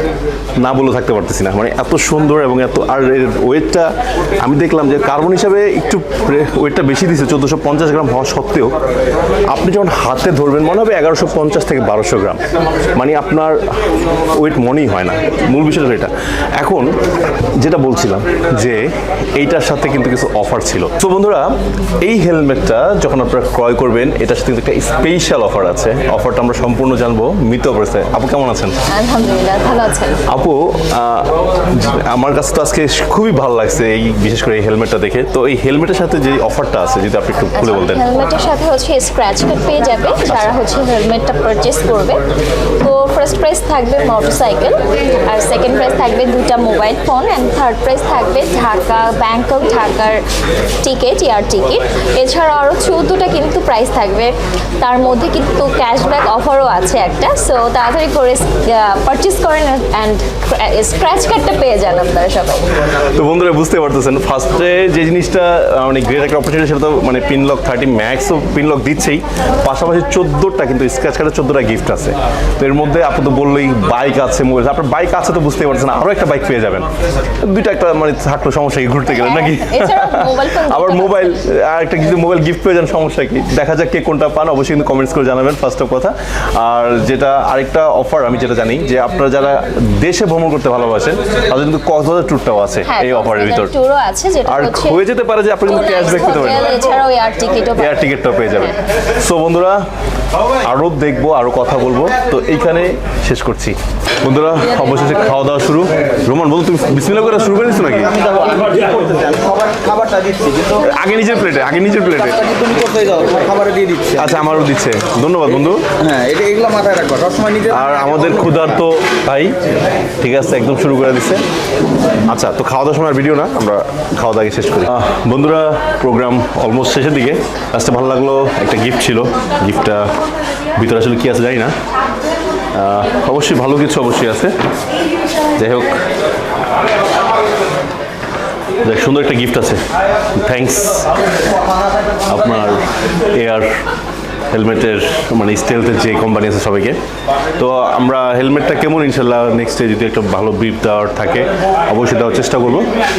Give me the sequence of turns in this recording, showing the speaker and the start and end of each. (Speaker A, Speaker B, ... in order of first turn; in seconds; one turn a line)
Speaker A: 0.6-8.8
Speaker A: 9.5-17.0
Speaker A: 17.6-28.8
Speaker B: 28.9-30.2
Speaker A: 30.3-38.0
Speaker B: 37.5-42.2
Speaker A: 40.2-40.6
Speaker B: 42.8-50.2
Speaker B: 50.8-62.8
Speaker A: 62.9-76.9
Speaker A: 77.4-93.8
Speaker B: 79.1-81.4
Speaker B: 92.9-95.0
Speaker A: 94.5-96.7
Speaker B: 95.7-98.8
Speaker A: 97.8-99.8
Speaker A: 100.6-108.2
Speaker C: 108.1-110.8
Speaker A: 110.8-112.4
Speaker C: 112.3-114.3
Speaker A: 114.2-115.8
Speaker C: 116.0-118.6
Speaker A: 117.7-119.5
Speaker A: 120.2-121.4
Speaker A: 122.3-130.1
Speaker A: 130.7-131.7
Speaker A: 132.7-134.5
Speaker A: 135.5-136.0
Speaker A: 138.8-139.8
Speaker A: 140.3-141.1
Speaker A: 142.3-143.7
Speaker A: 144.5-147.0
Speaker A: 147.6-152.9